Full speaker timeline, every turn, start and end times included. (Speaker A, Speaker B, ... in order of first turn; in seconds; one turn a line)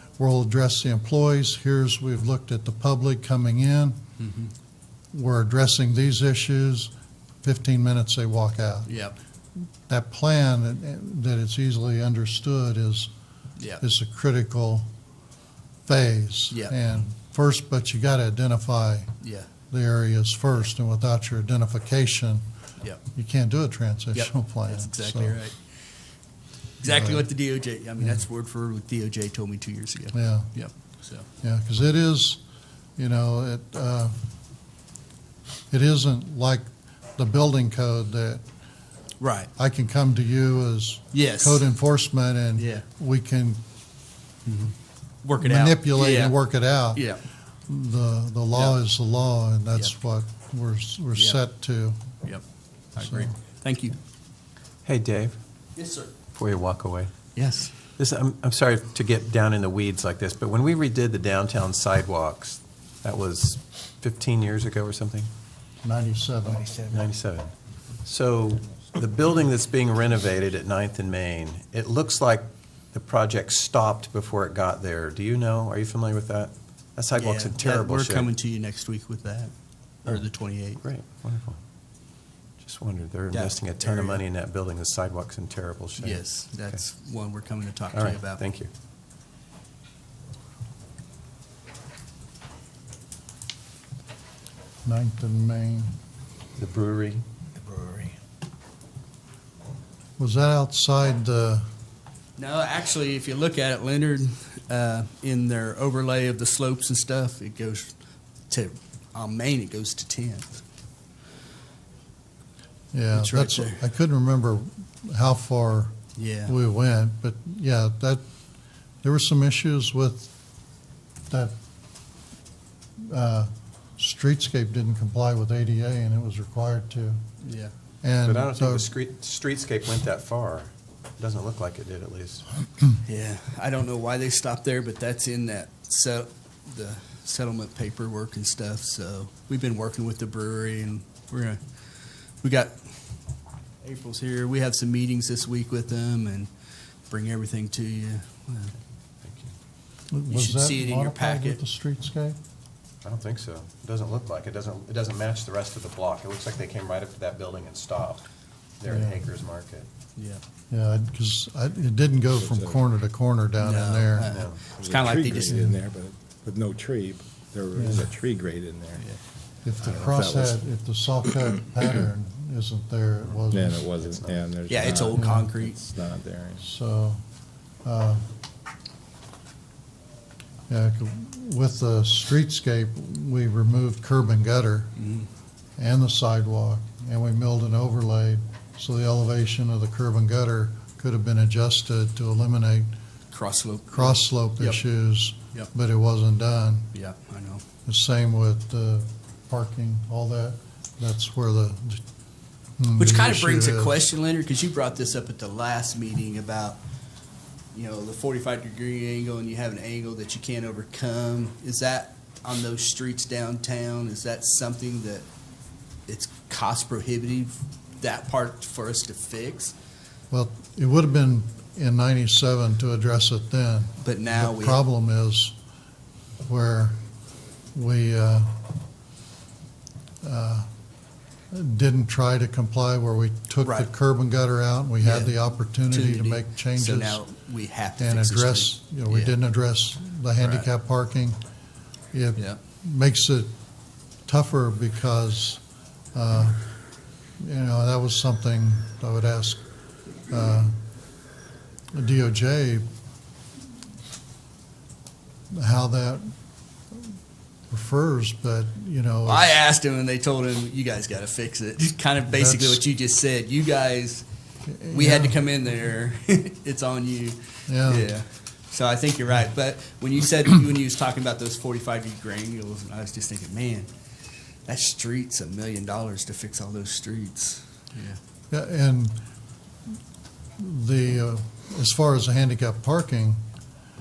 Speaker A: 0.2-4.0
Speaker B: 4.2-4.5
Speaker A: 5.1-6.9
Speaker A: 7.4-8.9
Speaker B: 8.9-9.1
Speaker A: 9.9-13.1
Speaker B: 13.6-13.8
Speaker A: 13.8-14.9
Speaker A: 15.9-19.1
Speaker B: 16.5-16.8
Speaker B: 19.2-19.5
Speaker A: 19.7-22.4
Speaker A: 23.1-25.4
Speaker B: 24.1-25.6
Speaker B: 26.8-31.2
Speaker A: 26.9-27.3
Speaker A: 30.1-30.5
Speaker A: 31.4-32.4
Speaker A: 33.0-34.1
Speaker A: 35.7-38.4
Speaker B: 39.2-39.5
Speaker A: 39.6-43.6
Speaker B: 41.1-41.6
Speaker B: 42.6-42.8
Speaker B: 44.5-46.4
Speaker A: 45.4-47.0
Speaker A: 47.7-52.0
Speaker B: 48.5-48.8
Speaker B: 52.9-54.0
Speaker A: 53.0-53.3
Speaker C: 54.8-55.4
Speaker B: 55.8-56.1
Speaker C: 56.3-57.1
Speaker B: 57.3-57.7
Speaker C: 58.0-65.3
Speaker A: 65.8-66.8
Speaker C: 66.8-67.5
Speaker C: 68.0-78.3
Speaker B: 77.2-79.5
Speaker B: 80.0-80.8
Speaker C: 80.8-81.6
Speaker C: 82.6-86.8
Speaker B: 83.3-84.2
Speaker B: 86.0-88.4
Speaker C: 87.9-88.7
Speaker A: 94.8-95.9
Speaker C: 96.6-97.2
Speaker A: 100.2-101.6
Speaker B: 102.4-107.9
Speaker B: 108.5-110.6
Speaker A: 112.9-115.9
Speaker B: 113.1-113.8
Speaker B: 116.2-116.5
Speaker A: 116.5-118.2
Speaker A: 119.0-120.3
Speaker A: 121.3-121.5
Speaker A: 123.1-127.2
Speaker B: 127.4-127.7
Speaker A: 128.0-128.9
Speaker C: 128.2-132.4
Speaker B: 133.1-141.6
Speaker B: 142.4-142.7
Speaker B: 143.8-146.5
Speaker B: 147.1-148.7
Speaker C: 149.2-149.5
Speaker A: 150.1-152.4
Speaker B: 150.3-151.6
Speaker C: 153.0-158.3
Speaker C: 158.8-159.9
Speaker A: 158.9-159.2
Speaker A: 160.7-164.3
Speaker D: 162.3-162.9
Speaker B: 163.6-165.7
Speaker C: 164.3-164.6
Speaker D: 164.8-169.1
Speaker A: 165.5-165.8
Speaker A: 167.8-168.0
Speaker A: 169.6-173.8
Speaker D: 169.8-170.6
Speaker D: 173.5-176.7
Speaker C: 174.0-174.4
Speaker B: 174.7-175.8
Speaker A: 175.1-175.4
Speaker A: 176.6-177.2
Speaker A: 177.8-178.2
Speaker A: 180.7-184.9
Speaker B: 185.0-185.3
Speaker A: 185.8-192.9
Speaker B: 193.3-194.8
Speaker A: 193.9-196.9
Speaker B: 196.9-197.6
Speaker A: 197.8-202.0
Speaker A: 202.8-203.9
Speaker B: 203.0-206.8
Speaker B: 207.7-215.3
Speaker B: 216.1-219.7
Speaker A: 220.3-225.5
Speaker B: 224.0-224.8
Speaker A: 226.4-227.0
Speaker A: 227.7-228.5
Speaker A: 230.2-230.7
Speaker A: 231.5-237.2
Speaker B: 235.0-239.4
Speaker A: 238.0-241.4
Speaker B: 240.4-240.7
Speaker A: 242.1-243.5
Speaker A: 244.2-245.6
Speaker A: 246.1-246.6
Speaker A: 247.4-249.6
Speaker A: 250.3-250.7
Speaker A: 251.9-252.8
Speaker A: 255.5-256.3
Speaker A: 257.7-259.6
Speaker B: 259.2-264.2
Speaker A: 262.3-262.8
Speaker A: 264.7-265.4
Speaker B: 264.9-273.9
Speaker A: 267.7-268.1
Speaker B: 274.6-278.2
Speaker A: 278.5-279.2
Speaker A: 280.6-283.4